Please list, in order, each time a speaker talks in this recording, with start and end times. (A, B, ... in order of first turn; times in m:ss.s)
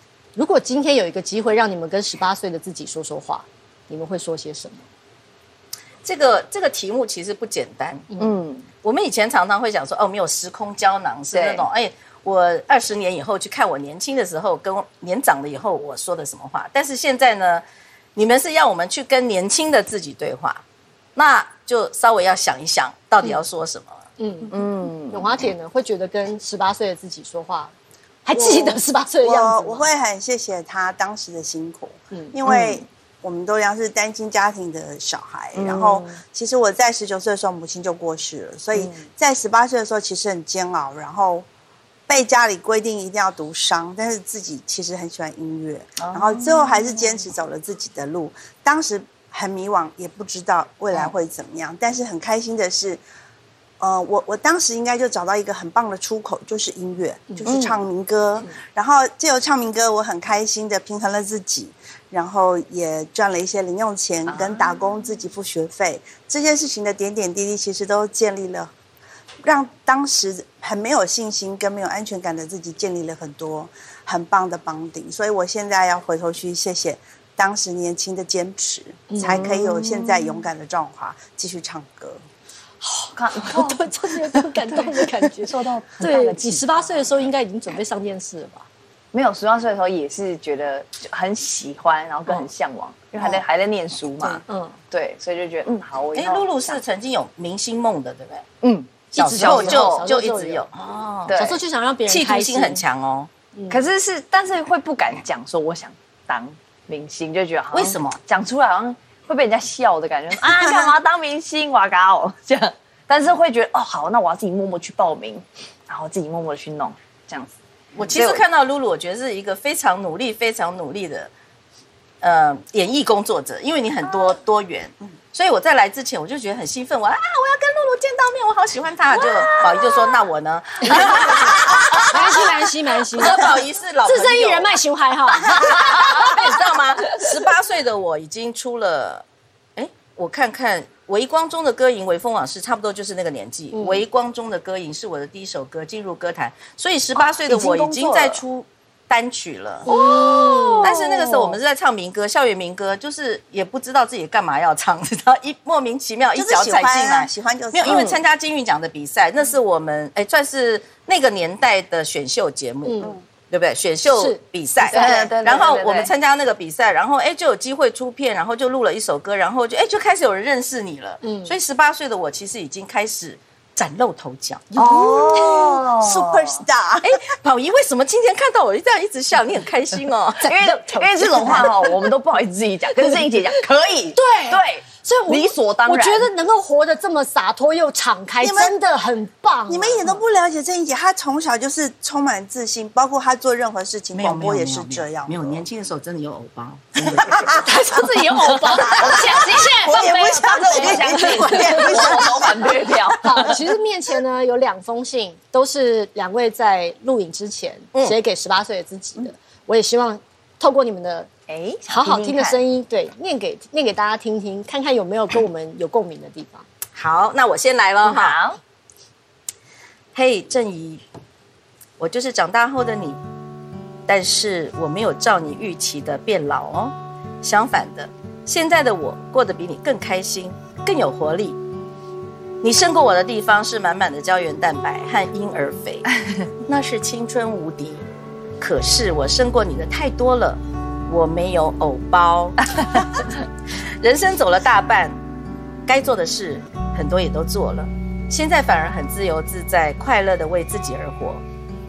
0:00.4-0:04.8 A
0:06.0-0:08.1 B
0:08.2-0:08.6 C
0:08.8-0:17.6 B
0:11.3-0:11.6 C
0:18.2-0:20.6 B
0:21.1-0:24.0 B
0:24.2-0:24.5 A
0:24.5-0:25.5 C
0:25.1-0:27.7 A
0:28.2-0:29.9 A
0:28.3-0:41.4 D
0:32.4-0:32.8 C
0:35.6-0:36.2 C
0:38.8-0:39.1 C
0:42.1-0:53.0 D
0:46.0-0:47.2 C
0:53.8-1:08.7 D
0:57.4-0:57.8 C
1:04.3-1:04.8 C
1:09.4-1:22.2 D
1:19.1-1:19.4 A
1:19.2-1:20.5 C
1:22.8-1:28.6 A
1:23.2-1:27.1 C
1:29.1-1:36.8 C
1:34.5-1:34.8 A
1:36.1-1:38.5 B
1:38.6-1:40.1 C
1:39.1-1:40.6 A
1:39.1-1:41.4 B
1:41.2-1:41.6 C
1:41.3-1:42.8 A
1:42.1-1:43.3 B
1:43.5-1:43.8 A
1:43.7-1:58.4 C
1:47.7-1:48.2 B
1:58.0-2:01.3 B
2:02.2-2:12.5 B
2:10.8-2:11.1 A
2:12.0-2:16.6 A
2:13.2-2:14.7 B
2:15.4-2:19.2 B
2:19.8-2:29.9 B
2:23.7-2:24.0 A
2:27.2-2:28.4 C
2:29.8-2:31.0 A
2:29.9-2:31.6 C
2:30.8-2:54.7 B
2:36.3-2:38.1 D
2:37.8-2:38.2 C
2:42.8-2:43.2 A
2:44.1-2:45.1 A
2:44.9-2:46.1 C
2:51.2-2:51.5 A
2:54.7-2:57.2 D
2:54.8-2:56.6 C
2:57.0-3:00.5 B
3:00.4-3:02.0 A
3:00.4-3:06.3 C
3:01.3-3:01.7 B
3:04.1-3:10.1 A
3:08.4-3:08.8 D
3:09.7-3:15.6 D
3:14.1-3:17.6 B
3:17.0-3:17.6 D
3:17.6-3:22.2 A
3:18.2-3:23.6 C
3:18.8-3:22.9 D
3:21.6-3:21.9 B
3:23.2-3:31.3 A
3:31.5-3:32.6 C
3:31.9-3:36.6 A
3:36.9-3:38.4 B
3:38.0-3:38.6 C
3:40.1-3:41.0 B
3:42.0-3:43.2 B
3:44.1-3:51.6 B
3:52.6-3:56.1 B
3:56.6-3:58.0 B
3:58.6-4:03.2 B
4:04.0-4:05.2 B
4:05.8-4:11.4 B